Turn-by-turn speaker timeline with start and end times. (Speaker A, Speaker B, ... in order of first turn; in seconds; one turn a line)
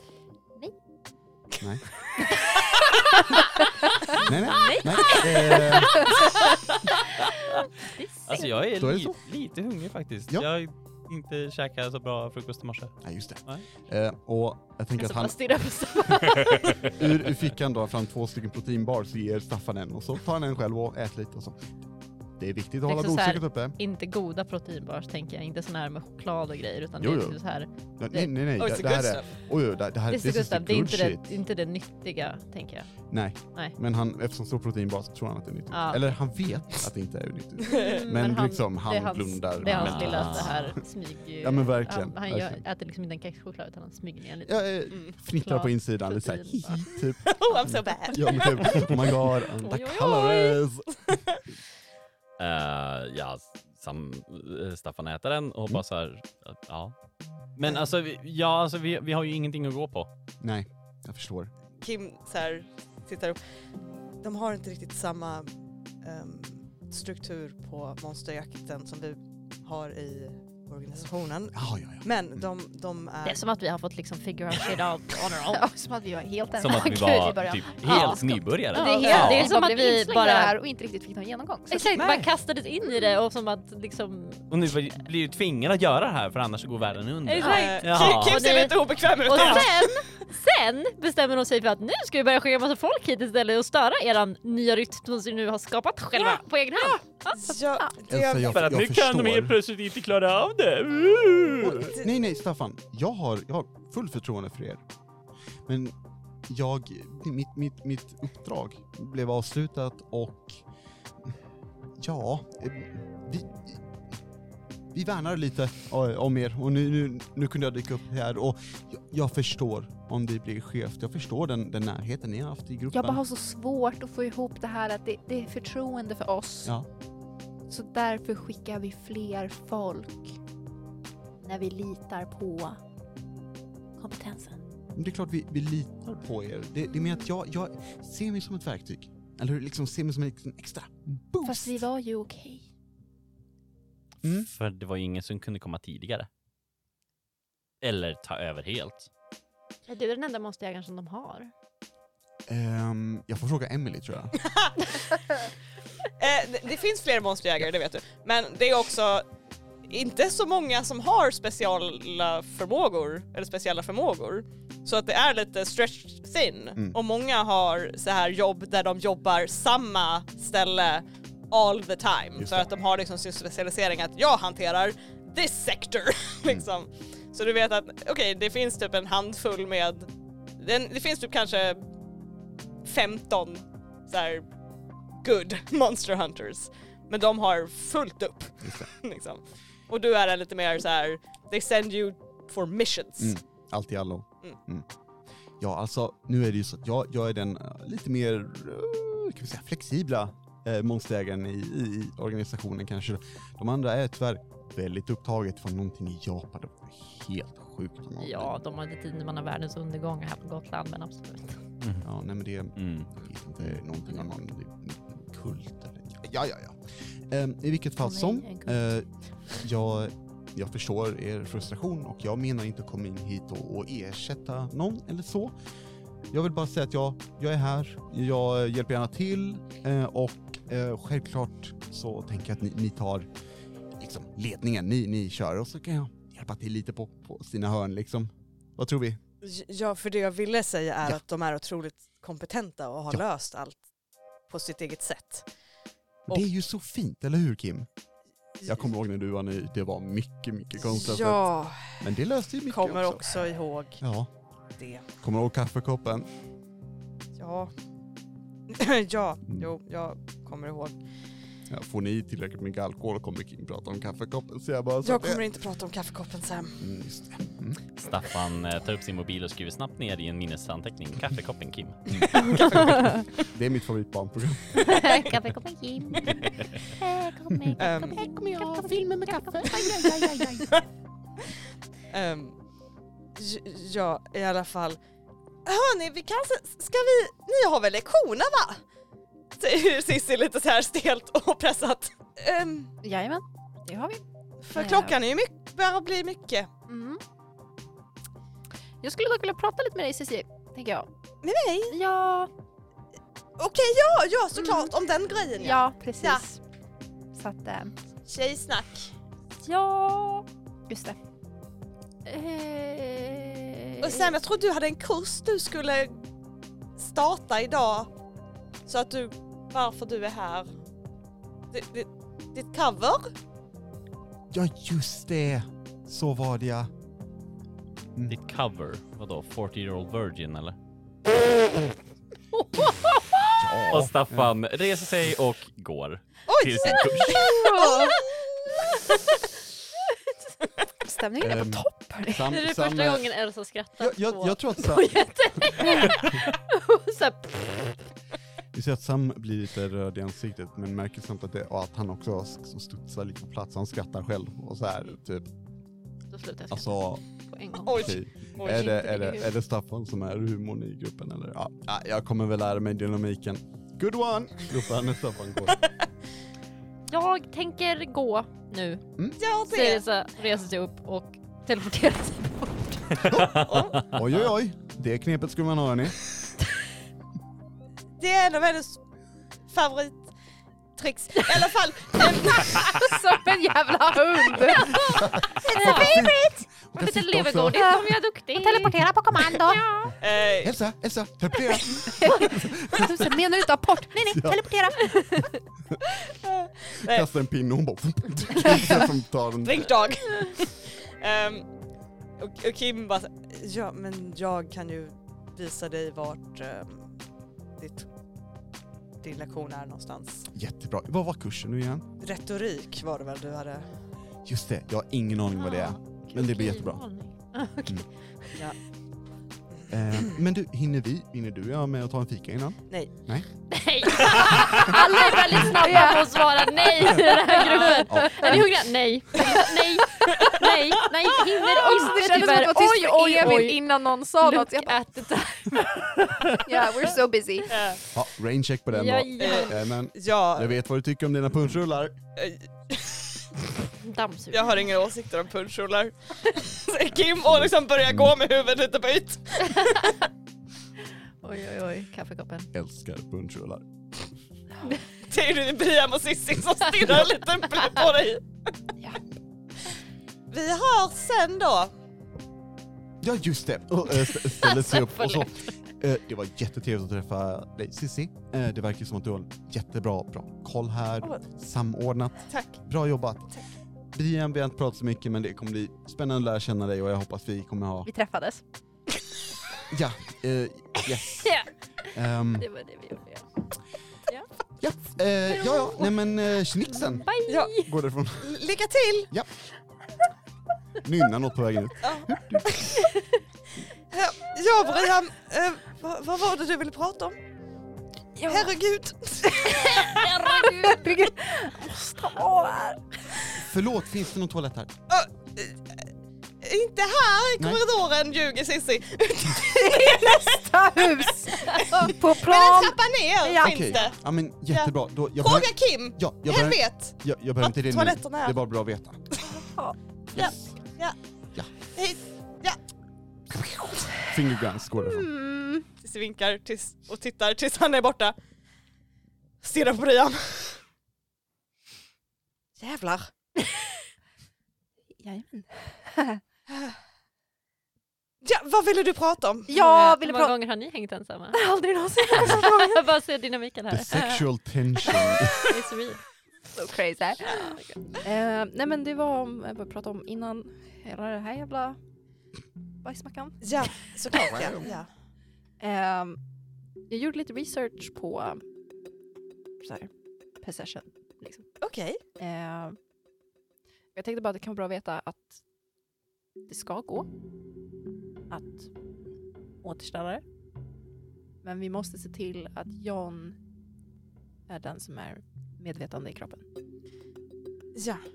Speaker A: 1.6-1.9
Speaker B: 4.1-6.4
Speaker A: 4.2-6.2
Speaker B: 7.8-8.6
Speaker C: 8.2-13.6
Speaker A: 8.7-9.2
Speaker A: 13.0-15.4
Speaker B: 15.0-16.9
Speaker A: 16.8-21.8
Speaker A: 22.4-23.8
Speaker B: 22.9-28.3
Speaker A: 27.0-27.4
Speaker A: 28.0-31.3
Speaker D: 28.6-29.3
Speaker B: 30.1-33.7
Speaker A: 33.1-40.8
Speaker B: 35.7-36.1
Speaker D: 37.6-38.0
Speaker B: 37.7-47.0
Speaker C: 39.7-40.6
Speaker A: 41.4-42.6
Speaker A: 44.5-51.0
Speaker D: 47.2-48.9
Speaker B: 47.5-48.5
Speaker B: 49.6-50.6
Speaker C: 52.4-56.9
Speaker C: 57.5-60.1
Speaker A: 60.4-61.5
Speaker D: 61.8-63.4
Speaker D: 64.2-65.5
Speaker D: 66.0-73.4
Speaker A: 71.5-72.5
Speaker B: 73.2-75.6
Speaker E: 75.5-82.0
Speaker C: 76.6-79.5
Speaker B: 76.7-77.0
Speaker B: 77.8-80.6
Speaker D: 79.0-79.3
Speaker B: 81.7-84.5
Speaker D: 82.0-82.2
Speaker C: 84.5-88.4
Speaker B: 87.2-97.5
Speaker D: 87.4-89.9
Speaker E: 96.2-97.0
Speaker D: 97.4-98.5
Speaker A: 98.1-99.6
Speaker C: 98.4-101.9
Speaker A: 101.7-104.8
Speaker A: 105.7-105.9
Speaker A: 106.5-110.6
Speaker A: 112.0-113.8
Speaker A: 114.9-123.2
Speaker E: 122.9-126.7
Speaker E: 127.7-130.3
Speaker E: 131.4-132.8
Speaker E: 134.0-134.6
Speaker A: 134.9-141.8
Speaker E: 141.4-142.7
Speaker A: 144.2-144.5
Speaker C: 144.3-146.3
Speaker C: 147.8-149.1
Speaker B: 149.9-151.5
Speaker A: 152.5-154.3
Speaker D: 154.4-155.4
Speaker D: 156.2-159.2
Speaker D: 159.8-181.8
Speaker A: 172.3-172.7
Speaker D: 182.8-184.5
Speaker D: 185.2-193.4
Speaker A: 188.6-188.9
Speaker A: 193.2-194.8
Speaker A: 195.6-208.5
Speaker B: 208.2-211.6
Speaker C: 211.8-212.1
Speaker A: 212.0-225.5
Speaker C: 212.8-213.1
Speaker E: 218.0-218.8
Speaker A: 226.3-233.3
Speaker A: 234.0-239.2
Speaker D: 239.4-243.8
Speaker D: 244.5-245.5
Speaker A: 246.3-247.9
Speaker A: 248.6-253.4
Speaker D: 250.8-252.0
Speaker D: 252.7-254.0
Speaker A: 254.0-254.3
Speaker D: 254.8-255.0
Speaker A: 255.2-256.3
Speaker D: 257.4-257.7
Speaker D: 258.7-261.0
Speaker A: 261.7-265.4
Speaker D: 265.0-266.8
Speaker A: 266.8-267.8
Speaker C: 268.0-272.2
Speaker A: 272.1-275.1
Speaker D: 272.4-272.9
Speaker B: 274.8-280.5
Speaker D: 274.9-275.2
Speaker A: 277.5-280.7
Speaker D: 277.8-278.2
Speaker D: 279.6-280.8
Speaker D: 282.1-282.6
Speaker D: 283.4-285.0
Speaker D: 285.6-288.8
Speaker D: 289.6-292.9
Speaker E: 293.0-294.2
Speaker D: 294.6-296.7
Speaker E: 294.7-295.2
Speaker E: 296.9-297.2
Speaker E: 299.0-301.1
Speaker D: 301.4-301.9
Speaker E: 301.9-302.5
Speaker D: 303.6-306.4
Speaker E: 304.6-304.9
Speaker E: 305.6-306.6
Speaker E: 307.3-307.9
Speaker D: 308.3-309.1
Speaker E: 309.6-311.2
Speaker B: 312.3-312.9
Speaker E: 312.6-313.6
Speaker D: 314.0-316.2
Speaker D: 317.0-318.1
Speaker D: 318.9-320.7
Speaker D: 321.7-323.3
Speaker A: 324.5-326.9
Speaker C: 328.3-330.8
Speaker B: 332.5-333.8
Speaker A: 333.6-334.5
Speaker C: 333.9-337.5
Speaker D: 336.5-339.0
Speaker E: 337.2-338.2
Speaker E: 341.0-342.5
Speaker A: 341.4-343.3
Speaker B: 342.4-348.1
Speaker A: 344.0-345.1
Speaker A: 348.7-355.5
Speaker B: 356.3-359.5
Speaker A: 356.7-357.2
Speaker D: 357.8-359.0
Speaker A: 357.9-365.8
Speaker B: 367.1-369.1
Speaker D: 369.4-370.0
Speaker B: 369.6-373.3
Speaker C: 373.1-374.1
Speaker A: 373.3-376.2
Speaker D: 373.6-374.0
Speaker D: 378.2-379.0
Speaker D: 379.7-380.3
Speaker D: 380.9-383.0
Speaker E: 382.6-386.6
Speaker B: 384.8-389.0
Speaker A: 385.0-387.8
Speaker E: 387.7-390.1
Speaker B: 389.5-390.1
Speaker D: 390.2-390.7
Speaker A: 390.6-393.4
Speaker E: 392.0-395.5
Speaker A: 394.2-394.7
Speaker D: 396.2-397.2
Speaker A: 397.1-399.9
Speaker D: 399.6-401.7
Speaker D: 402.4-407.1
Speaker D: 407.8-408.1
Speaker D: 409.2-410.5
Speaker A: 410.5-412.1
Speaker D: 412.2-413.9
Speaker A: 414.4-417.0
Speaker B: 415.6-418.7
Speaker A: 419.9-423.5
Speaker B: 423.7-436.6
Speaker E: 424.8-426.4
Speaker E: 427.3-428.6
Speaker A: 428.1-428.8
Speaker D: 430.2-430.7
Speaker E: 431.7-434.9
Speaker E: 436.5-437.7
Speaker D: 437.7-438.0
Speaker A: 438.1-442.1
Speaker B: 438.9-439.8
Speaker D: 439.4-440.7
Speaker D: 442.4-443.5
Speaker B: 444.0-444.9
Speaker D: 444.5-450.2
Speaker A: 447.4-448.3
Speaker B: 451.4-452.7
Speaker A: 452.7-453.8
Speaker D: 455.1-458.4
Speaker D: 460.5-461.9
Speaker A: 463.2-473.5
Speaker B: 464.5-465.7
Speaker D: 472.5-472.8
Speaker A: 474.1-478.1
Speaker E: 478.1-478.6
Speaker A: 479.9-481.6
Speaker B: 481.4-481.7
Speaker A: 482.1-482.7
Speaker B: 482.6-483.4
Speaker A: 484.8-488.6
Speaker B: 485.6-486.1
Speaker B: 486.9-487.9
Speaker D: 487.5-487.7
Speaker D: 488.4-489.3
Speaker A: 491.0-492.9
Speaker D: 492.0-492.9
Speaker D: 494.1-497.4
Speaker E: 498.4-498.7
Speaker D: 498.5-500.7
Speaker E: 499.5-503.2
Speaker B: 500.0-501.0
Speaker A: 503.6-504.9
Speaker D: 505.1-506.0
Speaker D: 506.6-518.5
Speaker E: 509.6-514.1
Speaker A: 513.6-519.2
Speaker A: 520.3-520.6
Speaker D: 520.3-521.2
Speaker D: 521.9-522.8
Speaker A: 523.5-525.3
Speaker E: 525.0-525.9
Speaker D: 526.0-528.3
Speaker D: 529.6-530.8
Speaker D: 532.8-533.3
Speaker E: 535.2-536.4
Speaker D: 536.7-536.9
Speaker D: 538.4-539.7
Speaker E: 539.7-540.5
Speaker B: 539.7-541.6
Speaker E: 541.5-543.0
Speaker B: 542.3-544.5
Speaker A: 543.9-545.7
Speaker B: 545.1-546.2
Speaker E: 546.7-552.0
Speaker E: 553.0-553.9
Speaker D: 553.6-555.1
Speaker A: 554.5-554.8
Speaker E: 555.8-556.4
Speaker E: 557.1-558.6
Speaker E: 559.8-561.7
Speaker D: 561.8-562.2
Speaker E: 562.4-563.0
Speaker E: 564.1-565.6
Speaker E: 566.7-567.3
Speaker E: 568.5-568.9
Speaker E: 569.8-570.4
Speaker E: 571.6-573.6
Speaker E: 574.7-576.6
Speaker D: 577.9-578.2